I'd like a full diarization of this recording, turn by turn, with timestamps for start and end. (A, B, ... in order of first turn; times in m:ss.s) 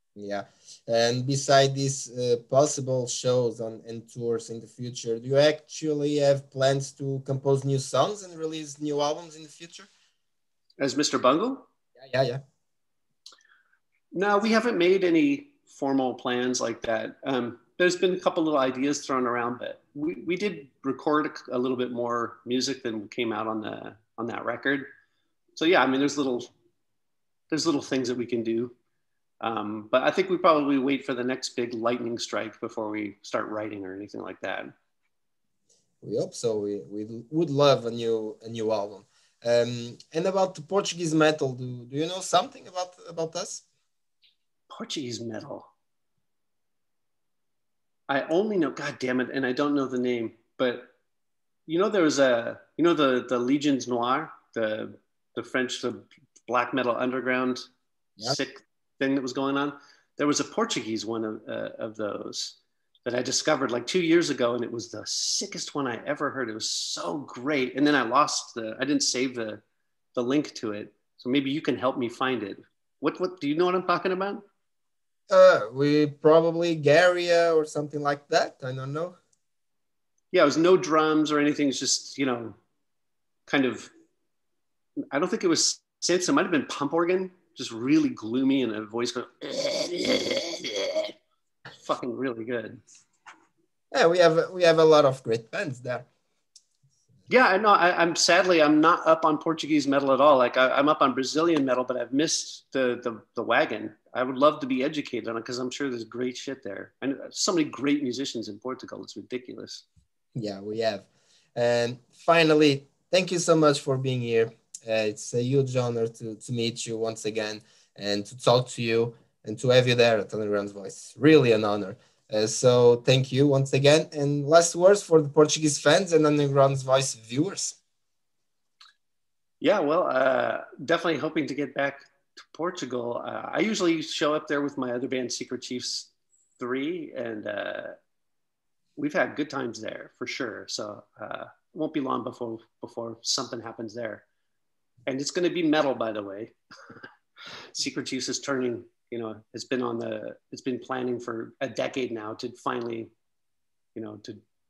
0:00.2-0:09.9 A
0:10.8-0:11.6 B
0:12.0-0:12.4 A
0:14.1-0:24.9 B
0:25.6-0:26.5 B
0:27.5-0:28.7 B
0:29.4-0:34.7 B
0:36.0-0:43.6 A
0:44.7-0:45.7 B
0:48.1-0:50.9 B
0:51.7-0:57.7 B
0:58.2-1:09.6 B
1:10.1-1:14.4 B
1:15.3-1:19.2 A
1:20.3-1:22.6 B
1:23.5-1:23.9 B
1:25.1-1:31.1 B
1:31.8-1:32.8 B
1:33.9-1:36.1 A
1:37.3-1:49.8 B
1:50.3-2:07.8 A
2:09.6-2:18.0 B
2:19.0-2:24.2 B
2:25.0-2:26.5 B
2:27.8-2:33.1 B
2:33.9-2:34.4 B